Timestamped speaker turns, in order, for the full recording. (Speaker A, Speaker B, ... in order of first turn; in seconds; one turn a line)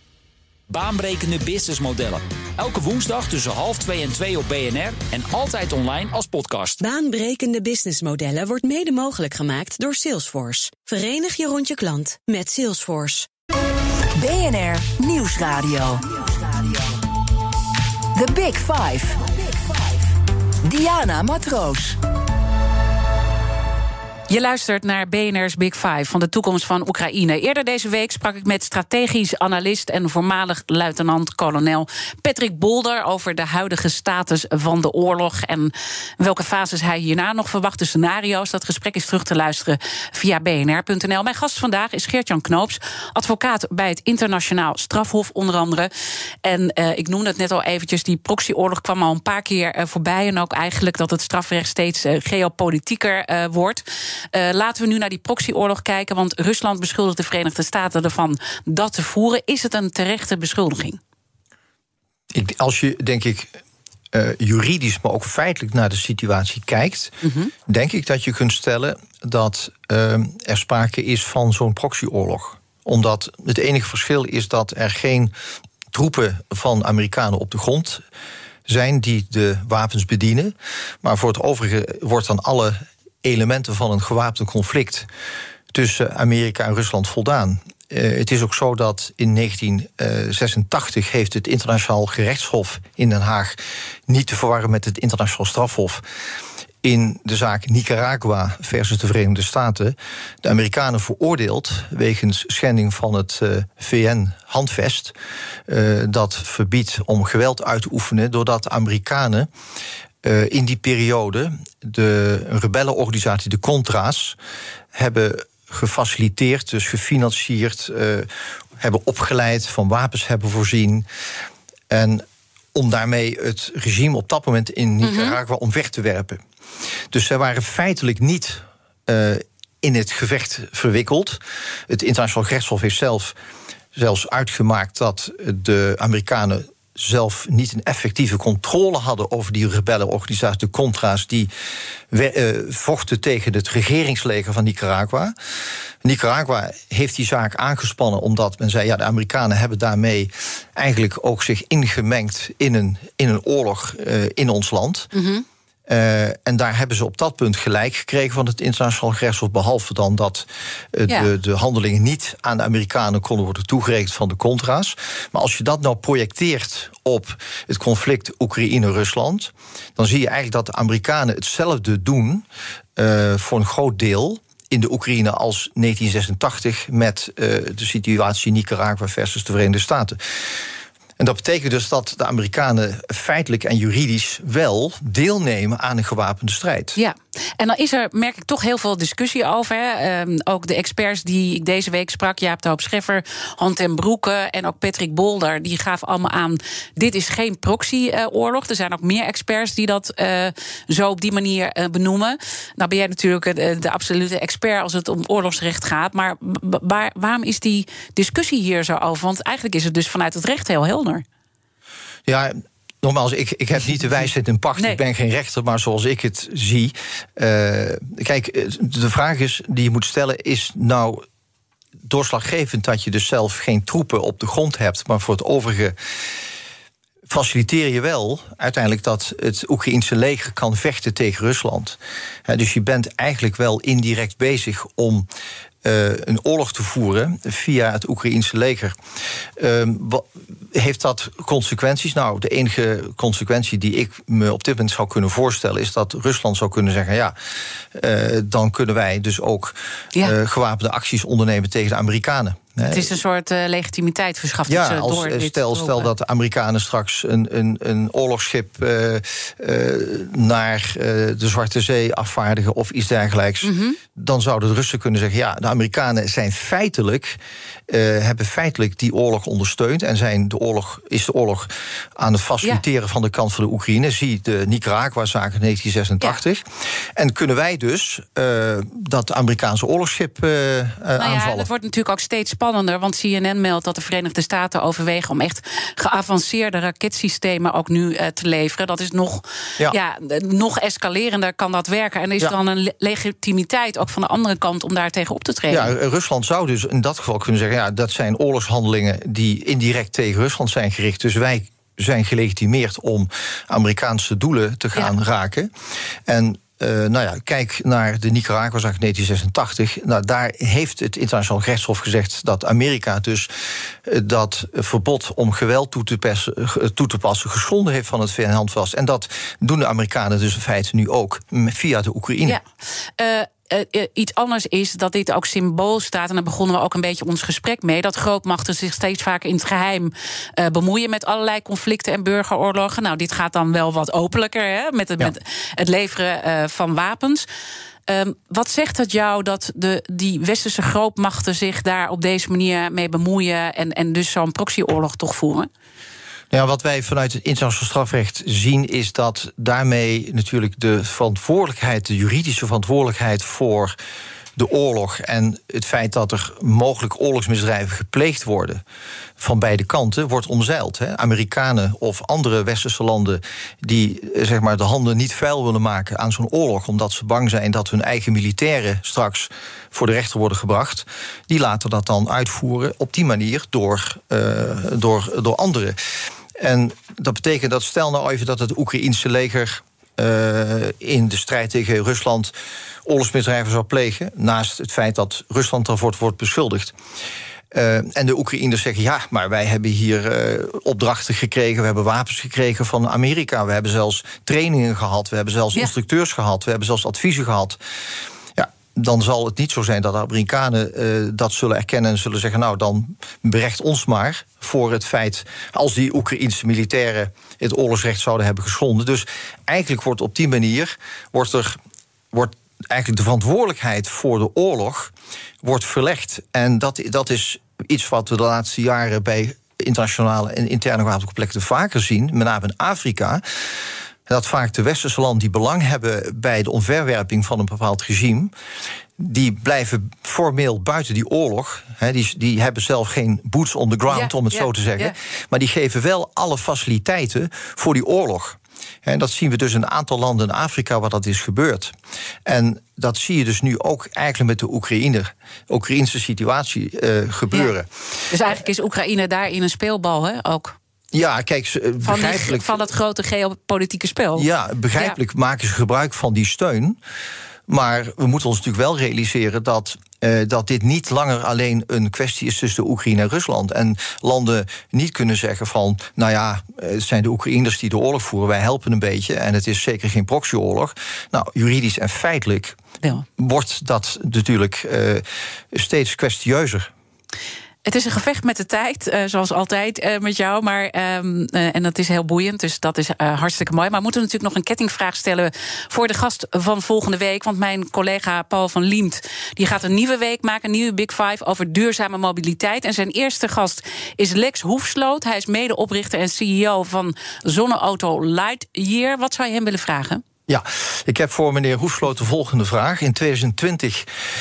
Speaker A: 0.7-6.8
Speaker B: 6.8-13.3
Speaker C: 14.2-17.0
Speaker C: 18.1-22.0
Speaker D: 24.3-45.9
Speaker D: 46.4-61.0
Speaker E: 62.3-63.6
Speaker E: 64.1-67.2
Speaker D: 67.2-67.5
Speaker E: 67.7-75.3
Speaker E: 75.9-78.0
Speaker E: 78.7-85.1
Speaker E: 85.7-96.0
Speaker E: 96.8-105.2
Speaker E: 105.7-109.5
Speaker E: 110.2-114.4
Speaker E: 114.9-121.1
Speaker E: 121.9-126.4
Speaker D: 125.0-125.4
Speaker E: 127.1-133.4
Speaker E: 133.9-141.5
Speaker E: 142.1-145.3
Speaker E: 146.0-155.1
Speaker D: 155.1-155.4
Speaker E: 155.9-172.5
Speaker E: 173.0-180.6
Speaker E: 181.2-187.0
Speaker D: 187.0-211.2
Speaker E: 212.3-221.2
Speaker E: 222.0-226.0
Speaker E: 227.3-235.3
Speaker E: 235.8-238.9
Speaker E: 239.6-247.3
Speaker E: 247.9-253.1
Speaker D: 252.9-256.1
Speaker E: 254.7-281.7
Speaker D: 263.6-264.0
Speaker D: 281.2-295.9
Speaker E: 295.7-305.7
Speaker E: 306.3-313.5
Speaker E: 314.1-322.6
Speaker D: 323.2-337.5
Speaker D: 338.1-345.7
Speaker E: 346.5-354.0
Speaker E: 354.6-358.8
Speaker E: 359.4-376.0
Speaker E: 376.6-382.5
Speaker E: 383.1-386.9
Speaker E: 387.7-397.8
Speaker E: 398.6-411.8
Speaker E: 412.3-423.4
Speaker E: 424.3-428.5
Speaker E: 429.2-441.9
Speaker D: 434.1-435.1
Speaker E: 442.5-448.3
Speaker D: 448.3-450.8
Speaker E: 451.1-452.8
Speaker D: 452.0-455.2
Speaker E: 454.4-457.0
Speaker E: 457.7-472.8
Speaker E: 473.4-476.9
Speaker D: 477.9-500.2
Speaker E: 500.5-504.1